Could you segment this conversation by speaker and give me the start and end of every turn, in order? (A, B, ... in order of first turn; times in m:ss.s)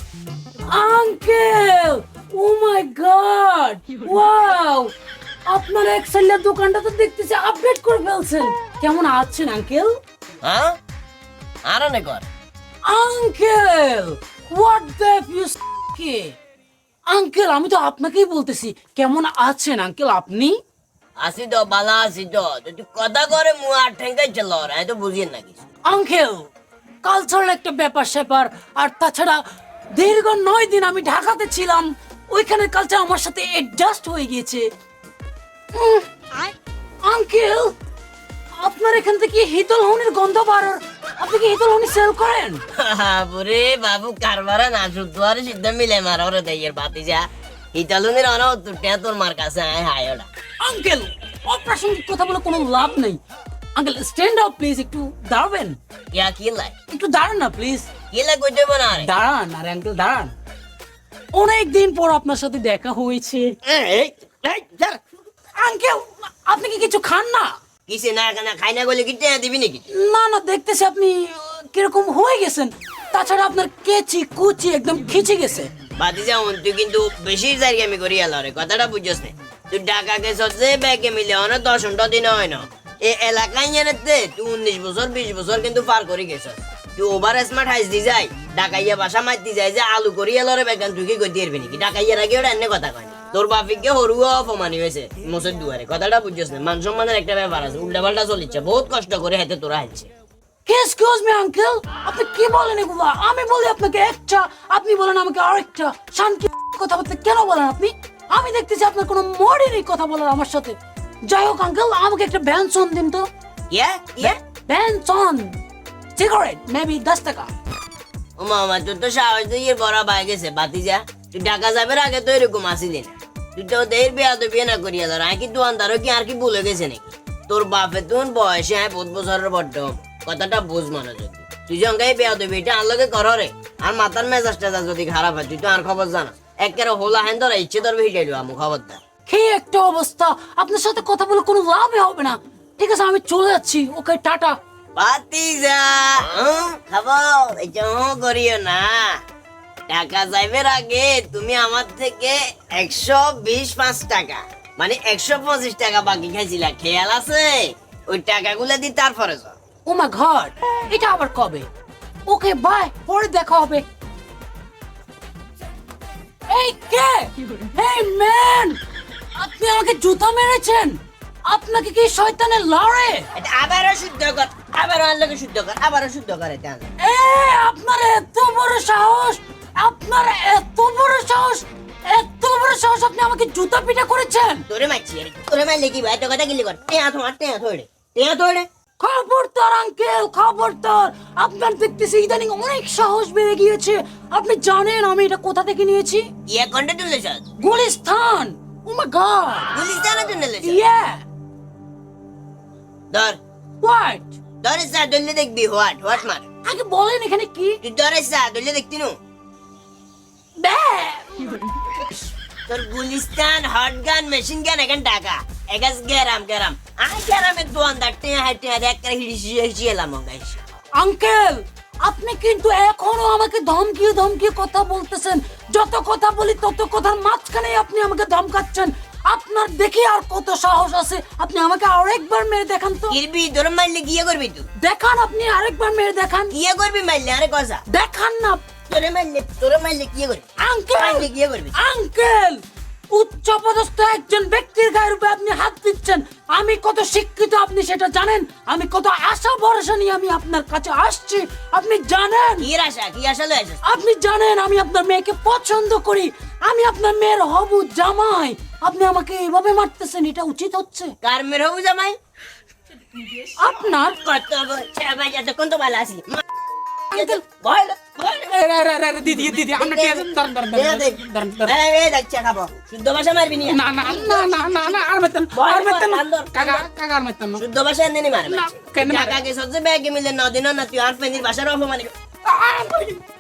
0:00.7-0:04.9 A
0:05.5-0:10.0 A
0:10.4-0:10.8 B
0:11.7-0:12.3 B
0:12.9-0:16.3 A
0:17.1-0:20.6 A
0:21.2-0:25.6 B
0:25.9-0:26.5 A
0:27.0-0:29.4 A
0:29.9-0:34.7 A
0:35.7-0:36.1 A
0:37.0-0:37.8 A
0:38.6-0:42.6 A
0:42.7-0:50.3 B
0:50.6-0:53.2 A
0:53.8-0:55.8 A
0:56.1-0:56.7 B
0:56.9-0:57.9 A
0:58.1-0:59.1 B
0:59.0-1:00.3 A
1:01.3-1:03.6 A
1:03.6-1:05.0 B
1:05.6-1:07.6 A
1:07.9-1:09.8 B
1:09.9-1:15.7 A
1:16.0-1:40.1 B
1:40.7-1:53.3 A
1:53.7-1:54.4 B
1:54.2-1:55.6 A
1:56.2-1:57.5 A
1:58.4-2:19.0 B
2:19.2-2:24.6 A
2:25.0-2:29.2 B
2:29.9-2:39.6 B
2:39.8-2:41.7 A
2:42.3-2:43.8 A
2:46.5-2:48.8 A
2:49.4-2:53.3 A
2:53.3-2:56.9 B
2:57.0-3:04.7 A
3:04.7-3:08.7 B
3:09.0-3:16.3 A
3:16.5-3:17.4 B
3:17.6-3:19.7 A
3:19.7-3:20.8 B
3:20.6-3:21.2 A
3:23.1-3:23.4 B
3:23.8-3:24.4 A
3:24.6-3:26.5 B
3:26.6-3:27.8 A
3:27.8-3:29.2 B
3:30.6-3:32.0 A
3:32.7-3:40.6 B
3:41.0-3:53.2 A
3:53.1-3:54.7 B
3:54.8-3:56.5 A
3:56.5-3:57.8 B
3:57.9-3:58.7 A
3:58.9-4:01.8 B
4:00.6-4:12.7 A
4:12.6-4:13.8 B
4:13.8-4:21.1 A
4:21.2-4:22.2 B
4:23.6-4:24.2 A
4:24.1-4:26.4 B
4:27.1-4:27.4 A
4:27.1-4:28.6 B
4:28.5-4:31.7 A
4:29.6-4:34.5 B
4:33.7-4:37.6 A
4:35.5-4:36.9 B
4:37.6-4:42.1 B
4:38.5-4:39.4 A
4:42.5-4:43.2 A